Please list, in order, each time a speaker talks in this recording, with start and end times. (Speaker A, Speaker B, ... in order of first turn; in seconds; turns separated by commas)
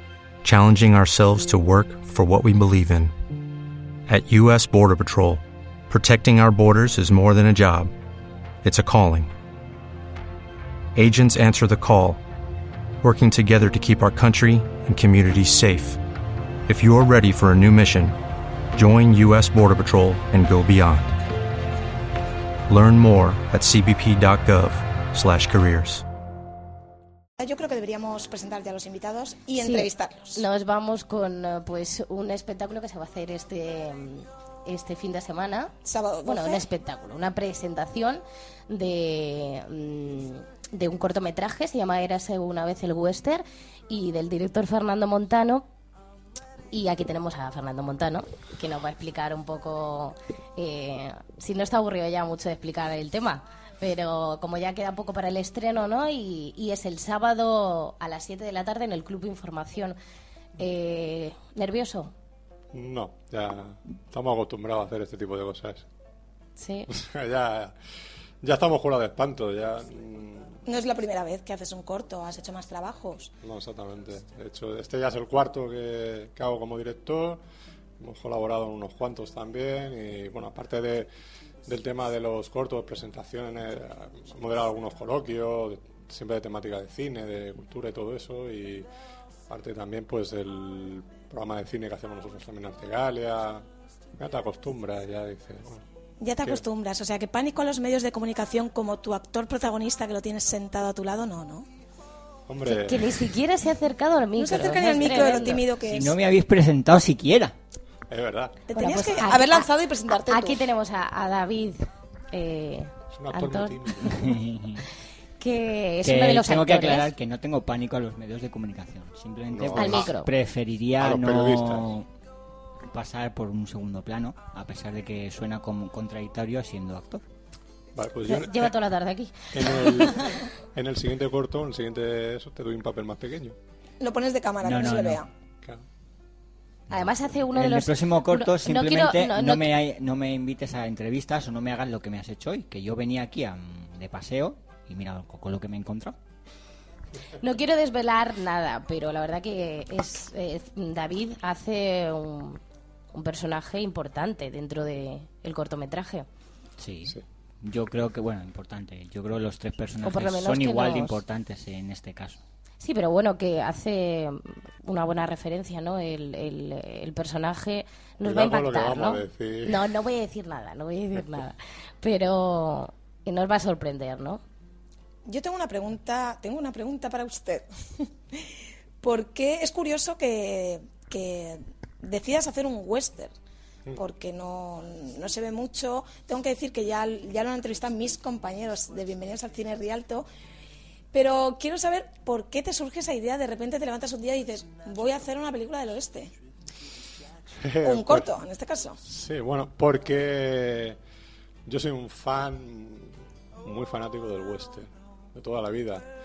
Speaker A: 0.4-3.1, Speaker A: 4.1-7.9, Speaker A: 8.6-9.3, Speaker A: 10.9-12.2, Speaker A: 13.0-16.0, Speaker A: 16.7-18.1, Speaker A: 18.8-21.1, Speaker A: 22.7-26.0, Speaker B: 27.4-30.4, Speaker C: 29.6-35.7, Speaker B: 35.9-36.7, Speaker C: 36.2-45.6, Speaker C: 46.7-60.0, Speaker C: 60.6-62.1, Speaker D: 62.7-65.9, Speaker C: 66.6-66.9, Speaker D: 66.9-67.8, Speaker D: 68.4-70.6, Speaker B: 70.7-73.3, Speaker D: 73.4-77.4, Speaker D: 78.0-81.1, Speaker D: 81.7-88.9, Speaker D: 89.5-93.7, Speaker D: 94.2-95.8, Speaker B: 96.2-101.7, Speaker D: 102.5-103.1, Speaker C: 102.7-105.6, Speaker B: 104.4-106.2, Speaker E: 105.8-107.5, Speaker D: 108.1-108.6, Speaker B: 108.7-110.6, Speaker C: 108.8-109.7, Speaker C: 110.3-114.3, Speaker D: 113.1-114.2, Speaker E: 114.0-114.8, Speaker C: 115.4-117.1, Speaker E: 116.0-122.1, Speaker D: 119.5-120.1, Speaker C: 119.8-120.3, Speaker D: 121.0-122.0, Speaker E: 122.9-127.2, Speaker D: 128.0-128.7, Speaker C: 128.3-130.3, Speaker D: 129.5-133.6, Speaker B: 134.0-135.3, Speaker E: 134.6-135.2, Speaker C: 136.9-139.7, Speaker E: 137.5-146.2, Speaker C: 147.4-152.6, Speaker C: 153.1-156.3, Speaker E: 156.8-162.4, Speaker C: 160.0-161.2, Speaker C: 162.8-174.4, Speaker D: 168.2-169.9, Speaker B: 175.2-183.3, Speaker B: 183.9-190.3, Speaker B: 191.1-196.3, Speaker D: 197.6-198.3, Speaker B: 197.8-199.0, Speaker D: 199.0-201.0, Speaker D: 201.7-206.1